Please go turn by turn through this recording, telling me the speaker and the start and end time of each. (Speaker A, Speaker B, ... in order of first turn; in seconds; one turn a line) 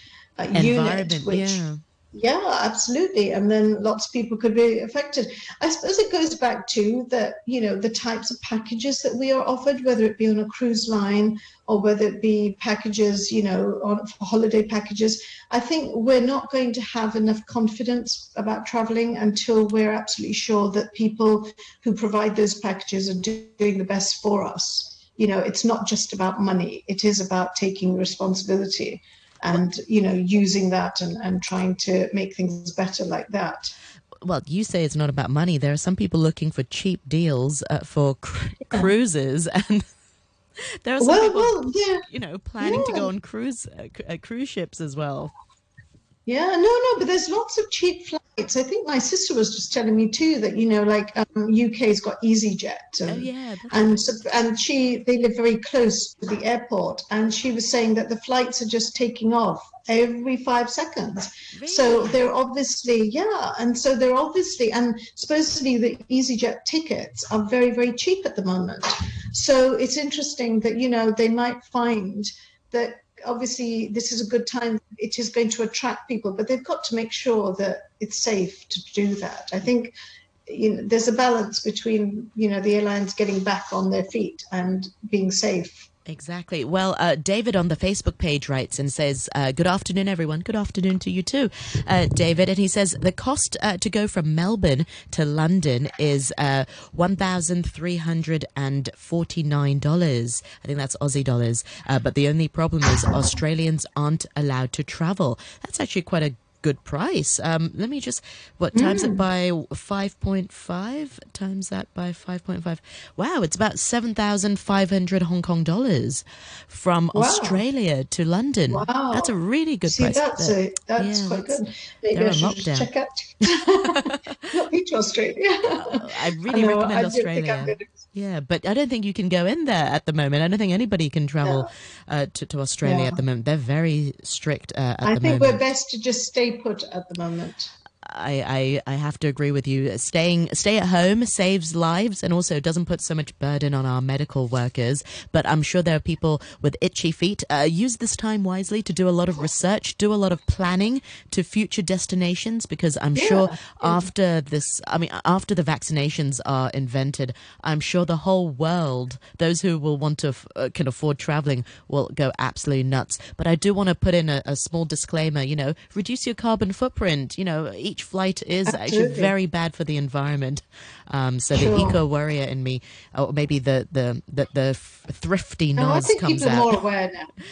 Speaker A: 0.4-33.7
Speaker B: 0.5-1.8
Speaker B: 34.2-39.8
Speaker B: 40.8-45.3
Speaker A: 41.0-42.0
Speaker A: 42.6-43.1
Speaker A: 46.2-79.9
Speaker B: 53.1-54.1
Speaker B: 61.5-62.2
Speaker A: 80.5-85.9
Speaker B: 86.1-121.6
Speaker A: 108.7-109.2
Speaker A: 117.1-117.6
Speaker A: 118.7-119.3
Speaker A: 119.8-128.0
Speaker B: 122.1-122.9
Speaker B: 123.9-124.5
Speaker B: 125.8-135.6
Speaker A: 131.4-131.7
Speaker A: 132.8-133.2
Speaker A: 135.0-137.7
Speaker B: 138.1-176.8
Speaker A: 153.1-154.1
Speaker A: 168.7-169.3
Speaker A: 171.5-172.0
Speaker A: 175.8-177.3